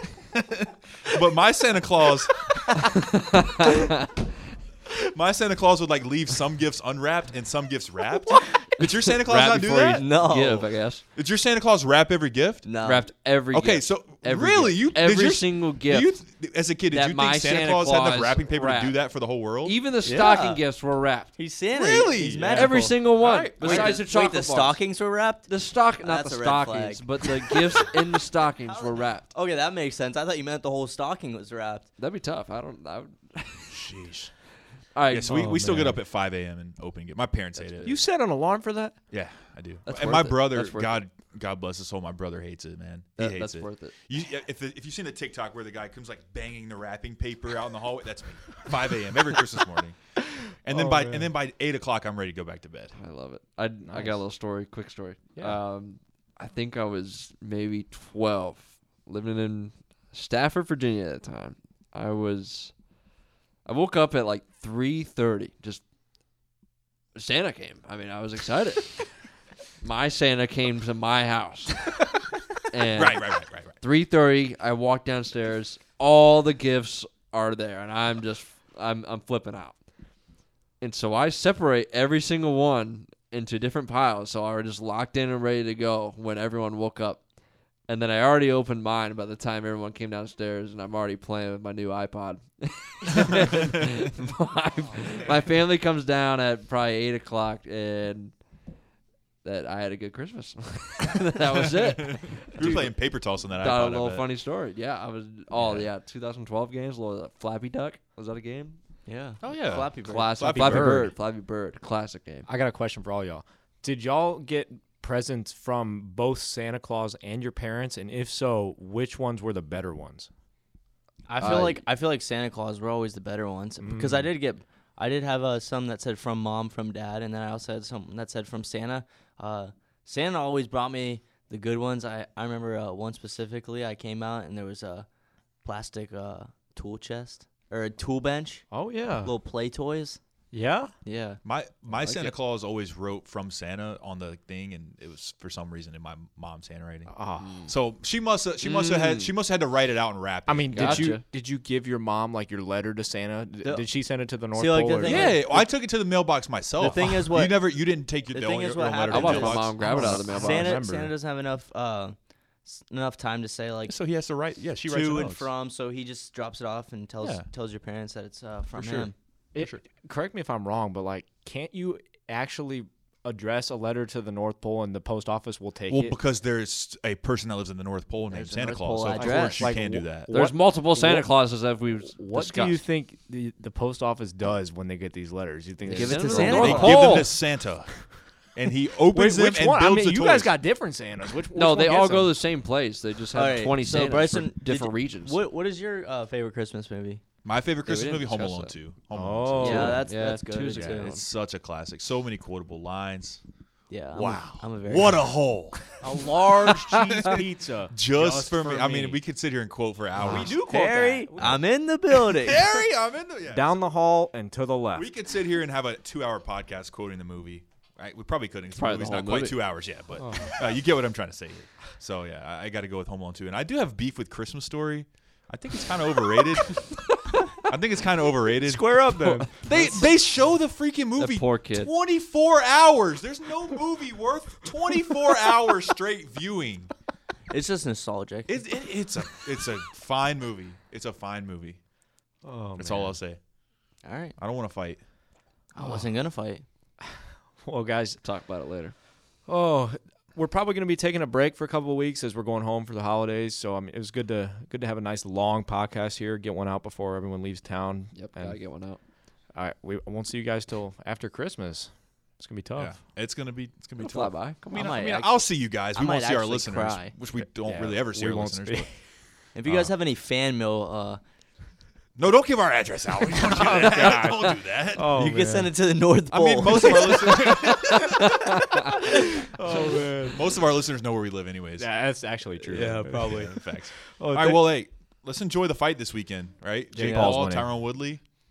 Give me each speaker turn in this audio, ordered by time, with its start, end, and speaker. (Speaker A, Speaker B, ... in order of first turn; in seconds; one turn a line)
Speaker A: 0.3-2.9
Speaker B: 3.1-4.1
Speaker A: 4.9-10.1
Speaker B: 9.2-11.0
Speaker C: 9.9-10.7
Speaker A: 11.2-12.7
Speaker C: 12.6-13.1
Speaker B: 12.8-16.2
Speaker A: 13.5-19.8
Speaker B: 16.9-19.0
Speaker B: 19.6-21.3
Speaker C: 20.1-20.6
Speaker C: 21.4-28.0
Speaker A: 21.7-23.0
Speaker B: 22.5-24.8
Speaker A: 23.6-24.0
Speaker B: 25.5-29.3
Speaker C: 28.6-31.9
Speaker B: 32.0-33.9
Speaker A: 33.7-34.3
Speaker B: 35.0-35.7
Speaker A: 35.1-38.0
Speaker D: 35.2-36.0
Speaker B: 37.6-37.9
Speaker D: 37.8-39.0
Speaker A: 39.1-50.0
Speaker B: 39.9-41.0
Speaker B: 43.2-44.0
Speaker A: 50.6-53.0
Speaker D: 50.7-51.3
Speaker B: 53.0-62.7
Speaker D: 53.9-54.2
Speaker B: 63.7-65.8
Speaker B: 67.2-69.1
Speaker B: 69.8-71.9
Speaker B: 72.7-79.8
Speaker A: 73.0-73.8
Speaker B: 80.8-87.2
Speaker B: 87.9-98.3
Speaker B: 99.4-102.8
Speaker A: 102.4-104.3
Speaker D: 102.6-102.9
Speaker B: 103.6-108.8
Speaker A: 105.6-105.9
Speaker C: 109.1-110.3
Speaker A: 109.4-111.1
Speaker B: 110.0-112.5
Speaker D: 112.5-120.3
Speaker C: 121.3-135.1
Speaker B: 121.4-121.7
Speaker D: 123.8-124.3
Speaker C: 135.6-140.2
Speaker D: 138.7-139.3
Speaker D: 140.5-140.9
Speaker C: 141.1-141.4
Speaker A: 141.4-147.1
Speaker B: 142.0-142.3
Speaker D: 147.1-147.7
Speaker B: 147.4-147.7
Speaker A: 147.7-151.2
Speaker B: 148.6-149.3
Speaker D: 150.5-155.5
Speaker B: 150.7-151.2
Speaker C: 154.5-155.7
Speaker A: 155.0-160.4
Speaker C: 156.8-157.7
Speaker C: 158.3-163.9
Speaker B: 159.1-161.1
Speaker D: 159.8-161.1
Speaker A: 163.9-165.5
Speaker C: 164.9-169.1
Speaker A: 167.2-167.5
Speaker A: 168.8-169.8
Speaker D: 169.6-176.2
Speaker A: 175.9-180.3
Speaker C: 178.3-179.8
Speaker D: 179.2-181.3
Speaker B: 180.3-182.8
Speaker D: 182.1-187.2
Speaker B: 185.9-187.3
Speaker C: 185.9-187.3
Speaker A: 186.6-190.6
Speaker D: 189.1-192.4
Speaker B: 191.5-195.4
Speaker C: 193.3-197.2
Speaker A: 197.4-200.0
Speaker B: 197.8-198.8
Speaker D: 199.1-200.1
Speaker C: 199.6-201.2
Speaker B: 199.6-201.2
Speaker A: 200.9-203.4
Speaker C: 203.9-205.3
Speaker A: 204.1-205.9
Speaker D: 206.0-209.2
Speaker A: 206.7-210.6
Speaker D: 210.2-211.6
Speaker C: 210.2-212.7
Speaker A: 212.3-213.8
Speaker D: 213.5-215.1
Speaker A: 214.9-226.8
Speaker B: 218.8-219.7
Speaker D: 220.2-220.6
Speaker A: 227.6-236.9
Speaker D: 228.7-229.9
Speaker C: 229.1-229.4
Speaker B: 231.2-231.9
Speaker C: 237.5-238.6
Speaker A: 238.5-241.8
Speaker D: 242.4-243.2
Speaker A: 242.8-243.4
Speaker C: 244.0-244.4
Speaker A: 244.4-245.0
Speaker C: 245.8-246.6
Speaker D: 247.6-248.2
Speaker B: 248.2-248.9
Speaker D: 249.5-258.6
Speaker B: 258.1-259.0
Speaker D: 259.5-263.0
Speaker A: 262.8-268.9
Speaker B: 264.0-264.6
Speaker C: 264.7-265.4
Speaker C: 265.9-267.1
Speaker D: 267.6-268.9
Speaker C: 269.6-271.2
Speaker A: 269.7-269.9
Speaker A: 272.2-275.1
Speaker D: 273.3-275.8
Speaker C: 275.1-277.7
Speaker A: 276.3-281.9
Speaker D: 279.4-280.5
Speaker D: 281.8-284.7
Speaker C: 282.6-283.5
Speaker A: 283.2-288.2
Speaker D: 286.9-287.8
Speaker C: 287.0-287.4